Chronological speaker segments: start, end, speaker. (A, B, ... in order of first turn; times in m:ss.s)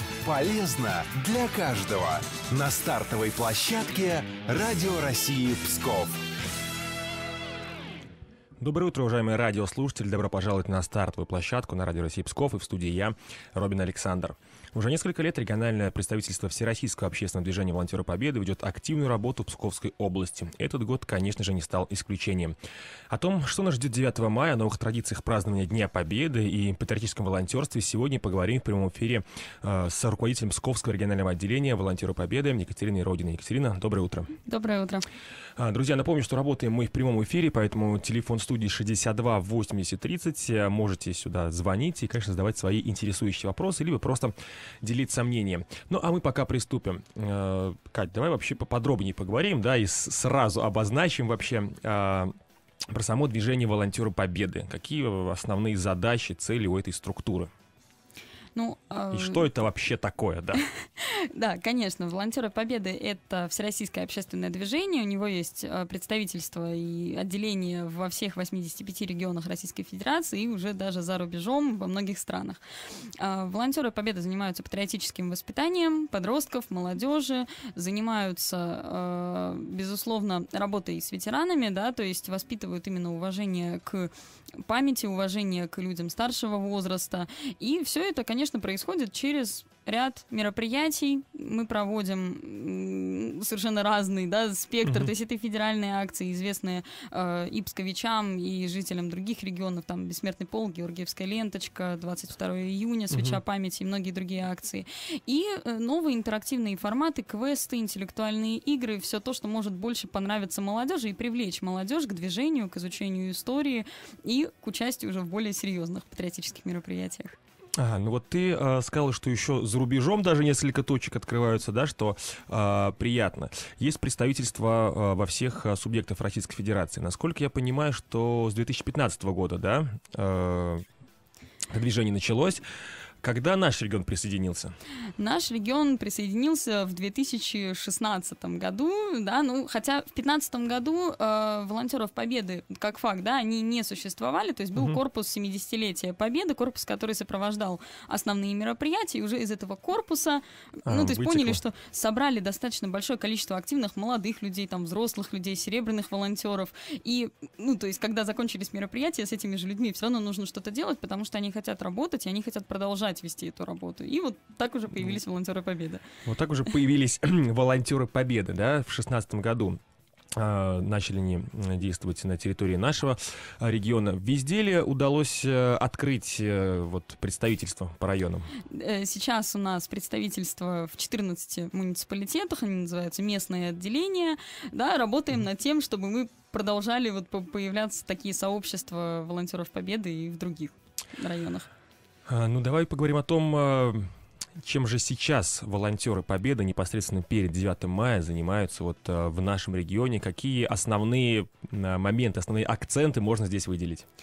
0:00.2-0:06.2 A
0:08.6-0:22.6 B
0:23.1-0:34.3 B
0:34.5-0:35.1 C
0:35.6-0:52.3 B
0:52.9-0:57.5 B
0:58.6-0:59.5 C
0:59.1-1:00.6 B
1:01.0-1:12.6 C
1:13.2-1:24.1 C
1:24.6-1:57.4 C
1:34.8-1:35.1 B
1:43.1-1:43.4 B
1:57.8-2:10.8 B
2:11.7-2:12.7 B
2:13.2-2:14.8 B
2:15.2-2:46.1 C
2:30.9-2:31.6 B
2:46.2-2:49.8 B
2:50.3-2:58.5 B
2:58.7-3:11.7 C
3:12.3-3:24.1 B